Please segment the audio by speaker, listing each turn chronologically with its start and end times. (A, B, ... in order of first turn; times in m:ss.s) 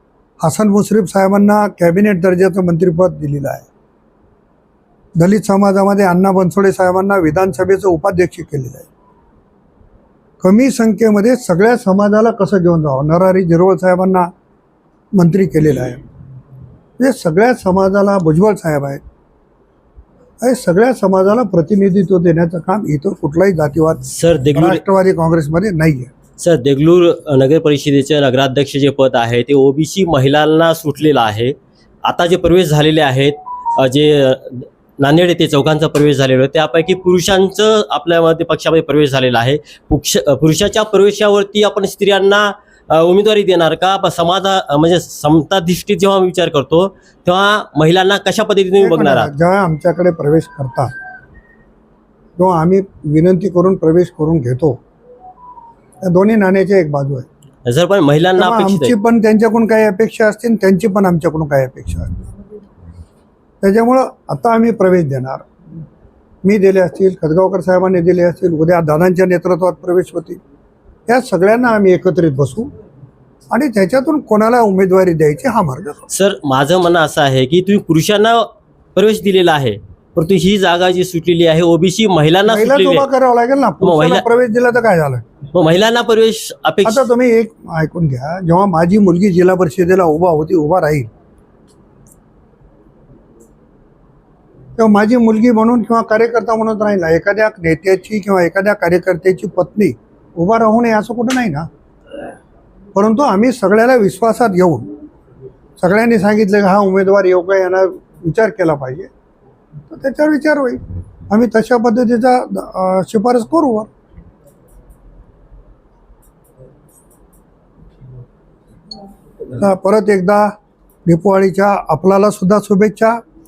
0:00.4-0:03.7 A
0:05.2-0:08.9 A
0:10.4-0:14.3 A
0:15.1-0:16.0 A
0:17.0-0:19.0 A
0:20.4-0:26.1 A
0:24.1-0:24.8 B
0:26.4-0:49.3 B
0:48.8-0:50.9 A
0:52.4-0:54.8 A
0:56.0-0:57.2 A
0:57.6-0:59.0 B
0:58.4-1:02.2 A
1:03.6-1:05.4 A
1:06.4-1:10.4 A
1:11.1-1:12.7 A
1:13.5-1:16.1 A
1:16.1-1:23.1 B
1:22.4-1:25.2 A
1:23.8-1:24.2 B
1:25.5-1:27.0 B
1:26.8-1:31.1 A
1:34.8-1:41.7 A
1:42.9-1:44.9 A
1:45.8-1:49.1 A
1:49.9-1:53.9 A
1:59.5-2:00.5 A
2:01.0-2:03.2 A